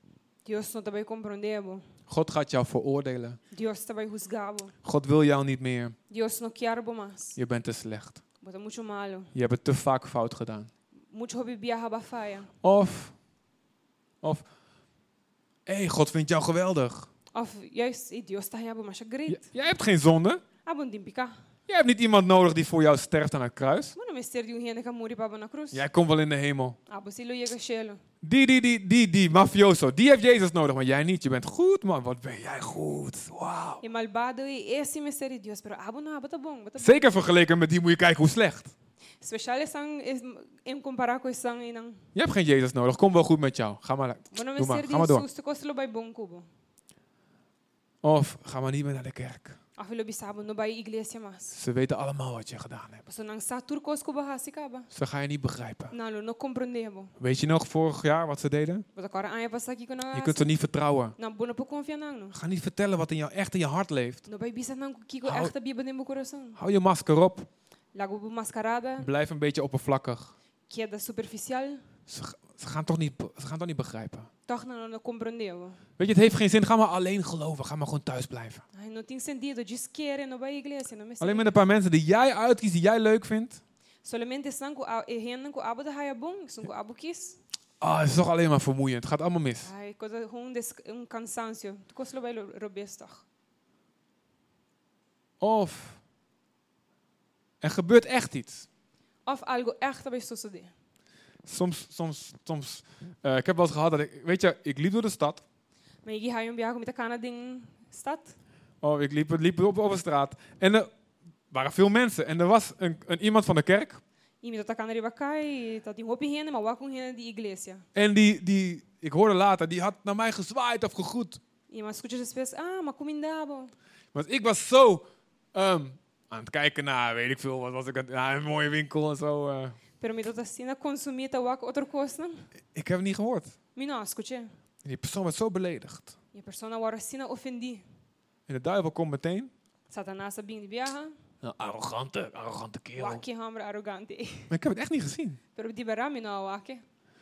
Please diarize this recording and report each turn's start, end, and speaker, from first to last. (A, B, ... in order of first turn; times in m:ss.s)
0:00.4-0:01.8 A
0:02.1-0:03.4 B
0:03.5-0:04.8 A
0:04.8-0:05.9 B
0:06.1-0:07.4 A
0:07.4-0:08.2 B
0:08.4-0:09.3 A
0:09.3-0:10.7 B
0:11.1-0:12.5 A
0:12.6-0:13.1 B
0:15.6-0:17.1 B
0:17.3-0:19.5 A
0:19.3-0:20.4 B
0:20.6-0:21.4 A
0:21.7-0:24.0 B
0:24.0-0:25.8 A
0:25.7-0:26.8 B
0:26.9-0:28.0 A
0:28.2-0:33.8 B
0:33.8-0:37.1 A
0:36.8-0:38.7 B
0:39.2-0:42.0 A
0:42.1-0:45.2 B
0:44.3-0:46.5 A
0:48.0-0:49.6 B
0:49.8-0:51.6 A
0:51.5-0:53.0 B
0:53.0-0:54.9 A
0:54.9-0:55.9 B
0:55.9-0:57.1 A
0:57.2-0:58.8 B
0:58.9-1:00.5 A
1:00.1-1:01.2 B
1:01.2-1:02.4 A
1:02.3-1:04.2 B
1:04.3-1:06.6 A
1:05.2-1:05.5 B
1:06.6-1:07.5 B
1:07.9-1:09.1 A
1:09.0-1:10.3 B
1:10.7-1:11.8 A
1:12.1-1:14.3 B
1:14.5-1:15.8 A
1:16.0-1:18.6 B
1:18.7-1:21.5 A
1:21.2-1:23.6 B
1:24.0-1:27.4 A
1:27.8-1:29.7 B
1:29.6-1:33.2 A
1:35.4-1:36.0 B
1:37.6-1:38.7 B
1:39.2-1:40.7 A
1:41.4-1:45.4 B
1:46.0-1:48.4 A
1:48.8-1:50.9 B
1:51.5-1:54.0 B
1:54.4-1:57.8 A
1:57.9-2:01.4 B
2:01.7-2:03.7 A
2:04.1-2:09.8 B
2:10.0-2:12.5 A
2:12.7-2:13.6 B
2:13.7-2:14.5 A
2:14.8-2:16.2 B
2:16.3-2:17.8 A
2:18.5-2:19.5 B
2:19.9-2:21.1 A
2:21.4-2:23.2 B
2:23.0-2:24.5 A
2:24.5-2:25.4 B
2:25.6-2:26.8 A